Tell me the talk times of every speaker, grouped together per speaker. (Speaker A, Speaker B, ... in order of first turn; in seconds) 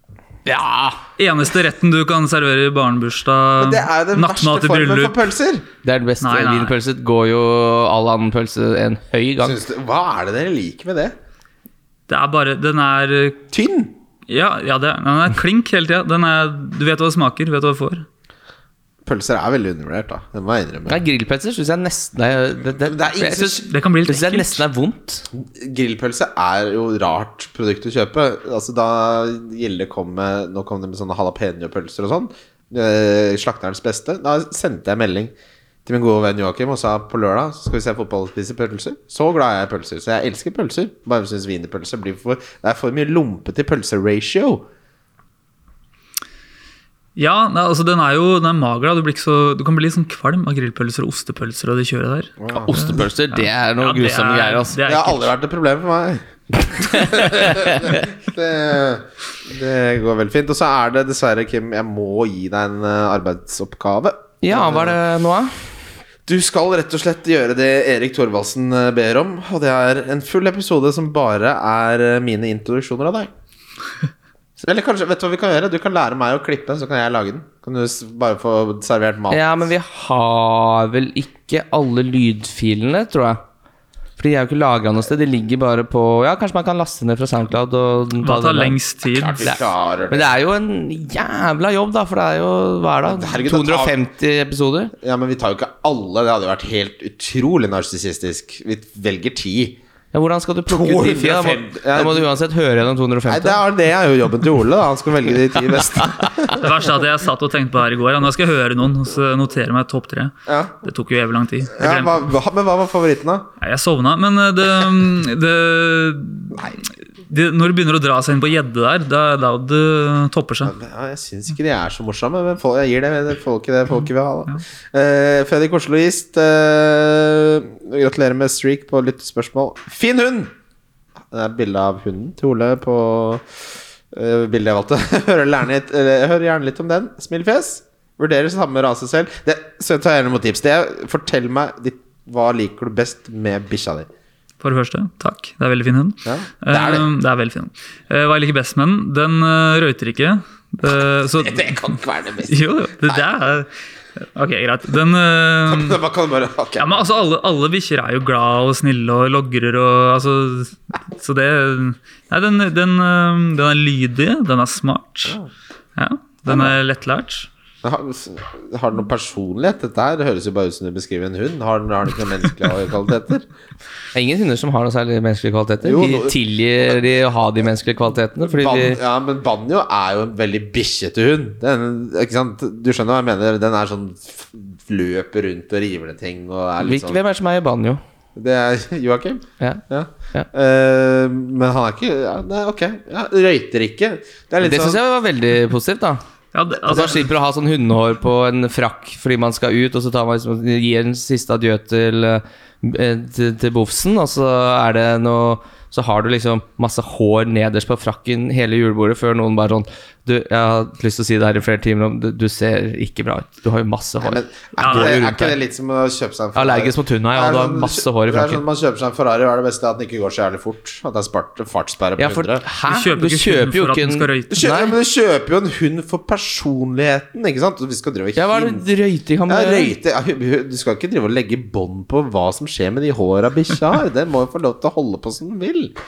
Speaker A: 0.5-1.0, 5.8-9.6, 20.9-25.2, 52.5-54.8, 56.8-58.0, 64.4-65.5, 79.3-83.4, 84.2-88.8, 89.4-94.9, 100.1-103.6, 174.1-179.0, 186.8-188.0, 194.6-196.2, 196.9-215.5, 216.5-218.6, 222.2-224.9, 228.3-229.9
Speaker B: 1.2-5.2, 6.2-6.7, 12.1-13.4, 14.3-18.1, 23.6-24.6, 47.1-55.3, 88.2-89.5, 106.5-112.2, 113.6-120.7, 144.6-156.0, 156.8-165.4, 165.9-167.5, 196.5-197.2, 214.8-215.2, 222.9-224.6
Speaker C: 3.6-5.7, 9.4-11.1, 13.5-13.9, 19.0-21.0, 22.8-23.6, 25.3-35.3, 35.9-44.6, 52.4-53.0, 54.8-65.0, 66.2-73.3, 74.6-79.5, 89.1-90.3, 93.0-94.0, 95.0-99.8, 100.7-102.3, 103.3-106.7, 110.5-110.8, 111.7-113.5, 116.5-116.8, 120.6-130.5, 131.3-144.1, 146.2-147.1, 151.4-153.2, 155.7-157.0, 166.5-166.8, 167.8-173.5, 175.8-176.4, 178.4-187.2, 188.3-195.0, 214.2-222.6, 224.5-228.8, 229.5-235.9